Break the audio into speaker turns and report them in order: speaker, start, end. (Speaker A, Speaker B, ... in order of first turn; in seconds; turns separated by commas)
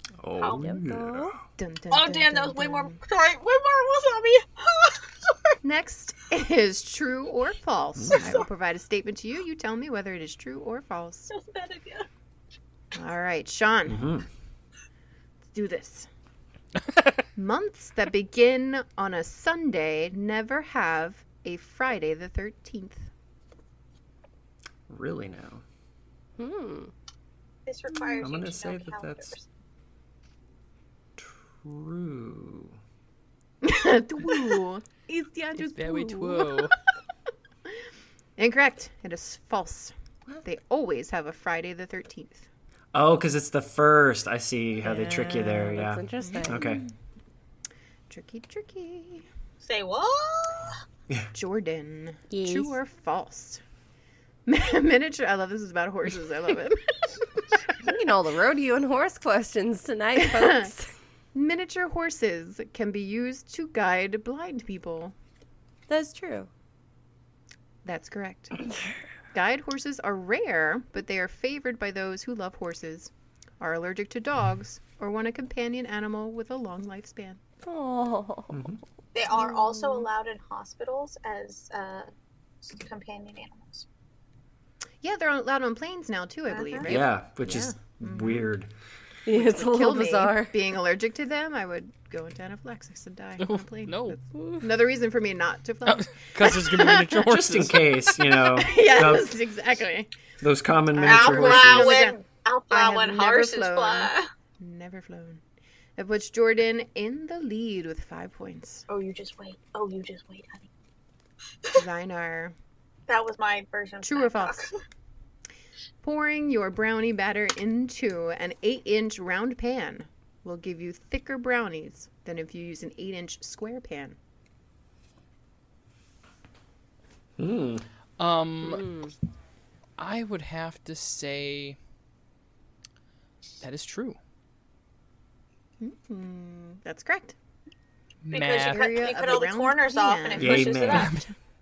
Speaker A: 0.2-1.4, Speaker B: 0.4-0.7, Speaker C: 0.6-1.4, Speaker D: 1.6-3.0, Speaker B: 1.9-5.3, Speaker D: 5.6-11.3, Speaker B: 8.1-8.5, Speaker B: 11.3-12.1, Speaker D: 12.9-14.1, Speaker A: 13.9-14.3, Speaker D: 15.5-16.1, Speaker D: 17.4-23.1, Speaker A: 24.9-25.6, Speaker C: 26.4-26.9, Speaker B: 27.7-29.5, Speaker A: 28.2-29.3, Speaker A: 31.2-32.8, Speaker D: 33.6-36.7, Speaker E: 35.7-36.7, Speaker D: 38.4-42.5, Speaker A: 42.9-46.8, Speaker C: 44.9-46.7, Speaker D: 46.2-46.9, Speaker D: 48.1-49.3, Speaker B: 49.6-50.8, Speaker D: 51.3-53.6, Speaker C: 52.3-52.8, Speaker D: 54.5-56.8, Speaker C: 57.9-60.9, Speaker D: 60.2-60.7, Speaker D: 61.3-65.2, Speaker C: 65.9-66.5, Speaker D: 67.8-68.6, Speaker D: 69.3-77.4, Speaker C: 77.6-78.6, Speaker A: 78.5-78.8, Speaker B: 79.1-82.1, Speaker B: 82.6-83.9, Speaker D: 85.0-88.5, Speaker B: 86.5-87.0, Speaker A: 86.9-88.7, Speaker C: 89.3-90.6, Speaker D: 89.3-97.2, Speaker E: 93.4-94.7, Speaker E: 95.8-97.8, Speaker A: 97.3-99.4, Speaker D: 98.2-100.1, Speaker A: 100.4-101.9, Speaker D: 100.9-105.4, Speaker B: 101.0-104.3, Speaker D: 106.0-108.9, Speaker B: 108.9-110.7, Speaker D: 111.7-112.6, Speaker B: 113.1-114.8, Speaker D: 114.0-114.6, Speaker D: 116.0-124.2, Speaker A: 127.4-127.8, Speaker E: 128.2-128.9, Speaker C: 128.6-129.1, Speaker E: 130.0-131.8, Speaker E: 133.6-134.2, Speaker D: 135.8-137.3, Speaker E: 138.3-138.9, Speaker B: 138.3-141.2, Speaker D: 138.7-141.3, Speaker A: 140.4-141.1, Speaker E: 140.9-141.2